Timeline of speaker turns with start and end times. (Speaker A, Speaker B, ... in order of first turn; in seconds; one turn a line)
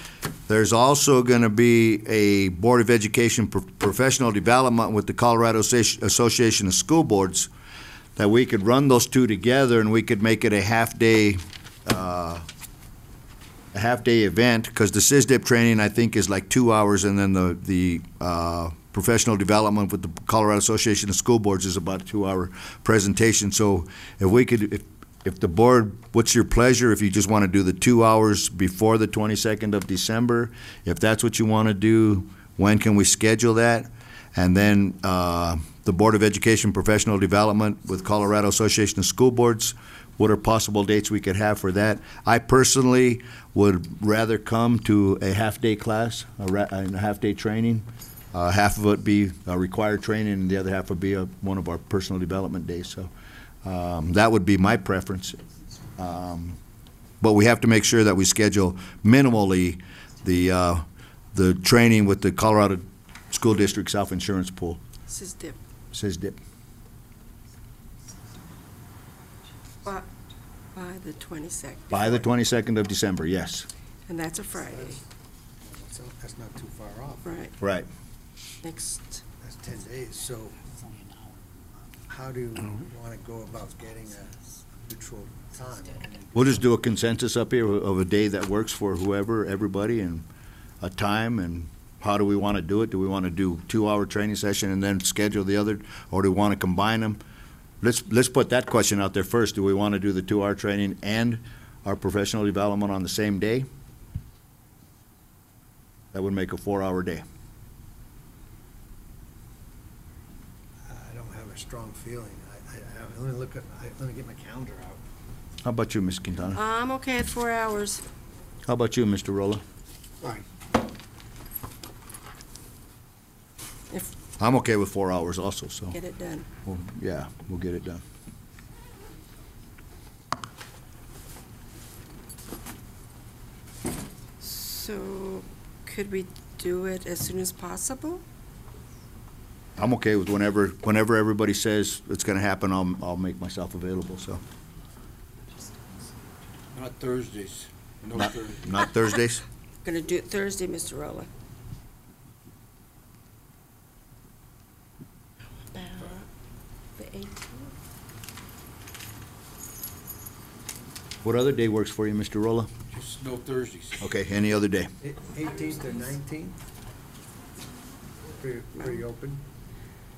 Speaker A: 0.5-7.5
Speaker A: 8.2-12.4
Speaker A: 13.7-53.1
Speaker A: 53.6-55.4
Speaker A: 56.0-56.6
Speaker A: 57.2-64.8
Speaker B: 65.1-65.6
Speaker A: 65.9-66.4
Speaker B: 70.7-72.3
Speaker A: 71.9-73.7
Speaker B: 74.1-75.0
Speaker C: 74.5-75.0
Speaker C: 75.6-77.3
Speaker B: 77.2-77.5
Speaker A: 77.6-77.9
Speaker B: 78.6-79.2
Speaker C: 79.4-80.6
Speaker C: 82.1-86.7
Speaker A: 86.3-90.2
Speaker A: 90.8-97.2
Speaker A: 97.8-103.7
Speaker A: 106.1-107.2
Speaker C: 110.8-115.0
Speaker A: 115.6-116.6
Speaker B: 116.5-118.0
Speaker A: 118.7-119.6
Speaker A: 124.4-126.0
Speaker B: 125.9-126.5
Speaker A: 126.6-128.0
Speaker B: 134.4-138.2
Speaker A: 139.8-144.4
Speaker D: 146.8-148.5
Speaker A: 148.2-149.4
Speaker B: 149.8-151.3
Speaker B: 155.7-156.3
Speaker B: 157.0-157.7
Speaker A: 161.2-162.7
Speaker D: 162.9-164.0
Speaker A: 164.0-164.9
Speaker C: 165.0-166.6
Speaker C: 168.4-169.4